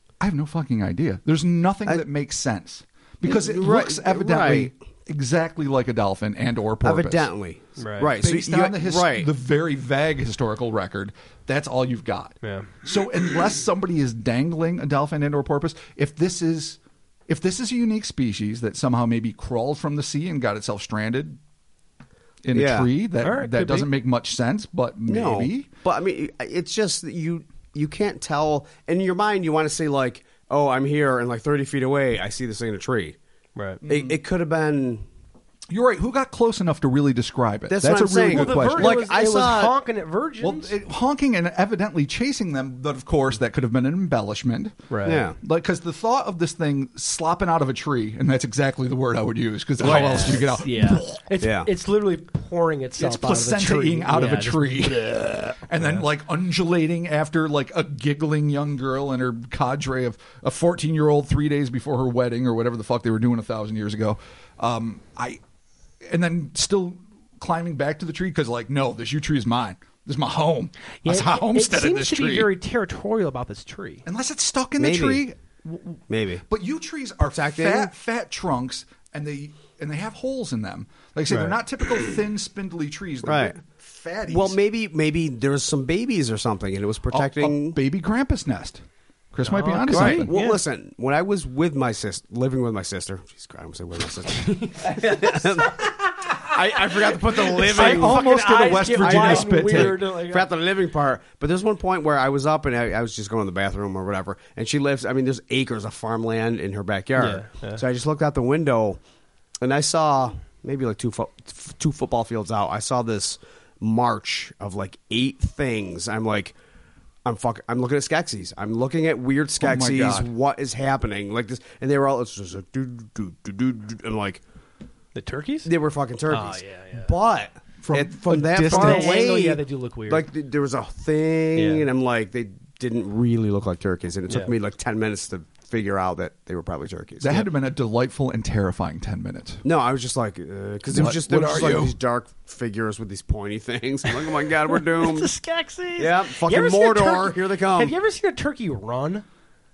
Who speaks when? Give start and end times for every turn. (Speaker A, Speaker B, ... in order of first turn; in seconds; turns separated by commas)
Speaker A: 0.2-7.3, Speaker B: 3.2-4.7, Speaker B: 6.8-9.3, Speaker C: 7.8-8.1, Speaker A: 8.2-21.4, Speaker C: 12.4-12.7, Speaker A: 22.4-25.7, Speaker B: 22.5-22.9, Speaker C: 23.2-23.9, Speaker B: 25.1-33.2, Speaker C: 33.5-33.8, Speaker A: 33.8-34.2, Speaker B: 33.9-35.0, Speaker A: 35.7-39.0, Speaker B: 37.7-39.7, Speaker C: 38.3-40.7, Speaker A: 40.4-44.8, Speaker C: 44.9-45.2, Speaker B: 45.0-45.4, Speaker A: 45.4-51.2, Speaker C: 49.8-56.0, Speaker B: 49.9-50.2, Speaker B: 51.4-51.7, Speaker A: 53.0-65.4, Speaker A: 66.1-72.5, Speaker C: 71.0-74.0, Speaker A: 74.0-84.6, Speaker B: 74.8-75.2, Speaker B: 76.1-76.4, Speaker B: 77.2-77.9, Speaker B: 83.2-83.5, Speaker B: 84.3-87.8, Speaker A: 87.1-88.8, Speaker A: 89.3-90.3, Speaker C: 89.4-90.6, Speaker B: 89.9-95.9, Speaker C: 94.3-100.5, Speaker B: 96.4-98.2, Speaker A: 97.7-100.0, Speaker B: 98.9-109.0, Speaker C: 107.2-107.8, Speaker B: 109.6-116.5, Speaker B: 117.2-124.4, Speaker A: 119.6-120.3, Speaker C: 125.1-125.7, Speaker B: 125.6-137.5, Speaker C: 126.3-127.1, Speaker A: 127.8-129.2, Speaker C: 128.7-130.3, Speaker C: 131.6-131.9, Speaker A: 137.2-139.6, Speaker B: 139.6-145.3, Speaker A: 140.9-141.9, Speaker C: 144.7-149.2, Speaker B: 146.0-147.9